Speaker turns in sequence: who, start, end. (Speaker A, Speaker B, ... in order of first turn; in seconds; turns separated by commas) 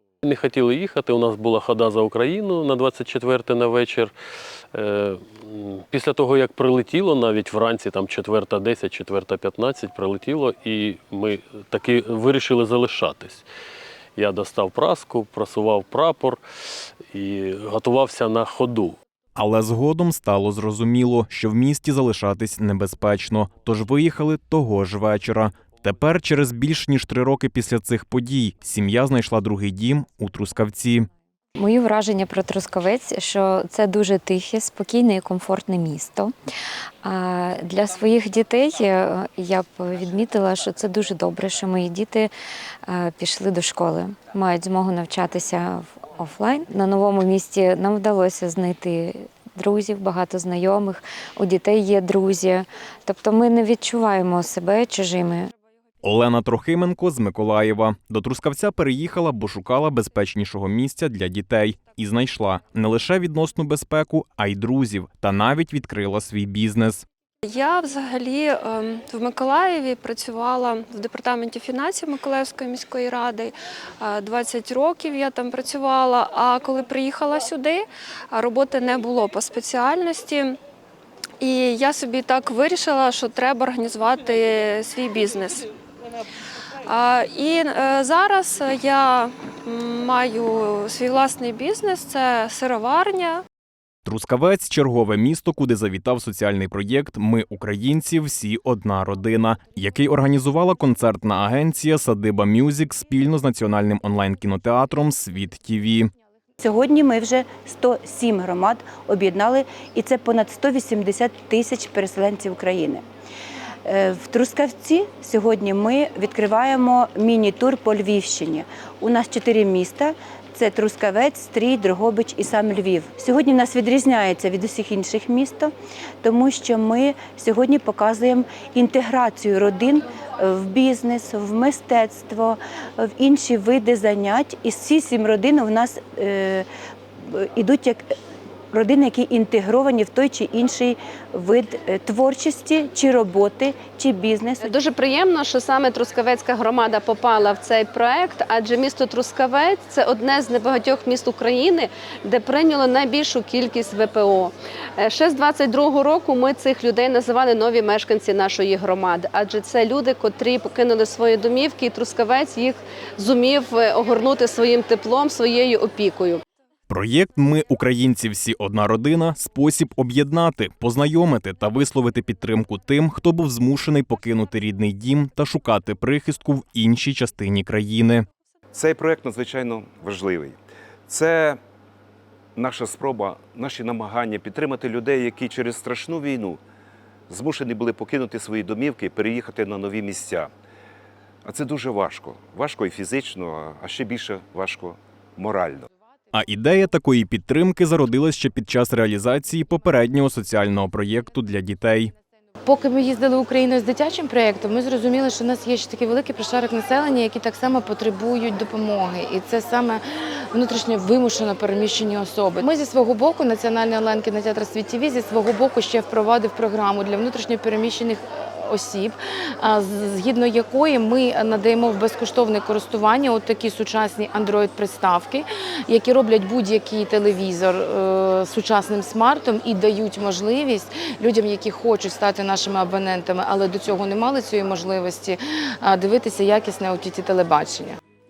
Speaker A: 0.2-4.1, Speaker A: 4.7-13.4, Speaker A: 14.2-16.4, Speaker A: 17.1-18.9, Speaker B: 19.4-31.1, Speaker C: 31.6-36.3, Speaker C: 37.0-42.3, Speaker C: 42.9-55.5, Speaker B: 56.0-67.0, Speaker D: 67.4-80.6, Speaker D: 81.4-85.7, Speaker D: 86.9-93.4, Speaker B: 94.0-106.1, Speaker E: 106.6-113.0, Speaker E: 113.8-125.7, Speaker E: 126.2-136.7, Speaker E: 137.2-138.1, Speaker E: 138.7-144.7, Speaker F: 144.6-166.4, Speaker B: 166.9-178.2, Speaker G: 178.7-181.6, Speaker G: 182.6-186.6, Speaker G: 187.3-190.5, Speaker G: 191.4-195.9, Speaker B: 196.3-202.1, Speaker H: 202.7-210.0, Speaker H: 210.5-237.9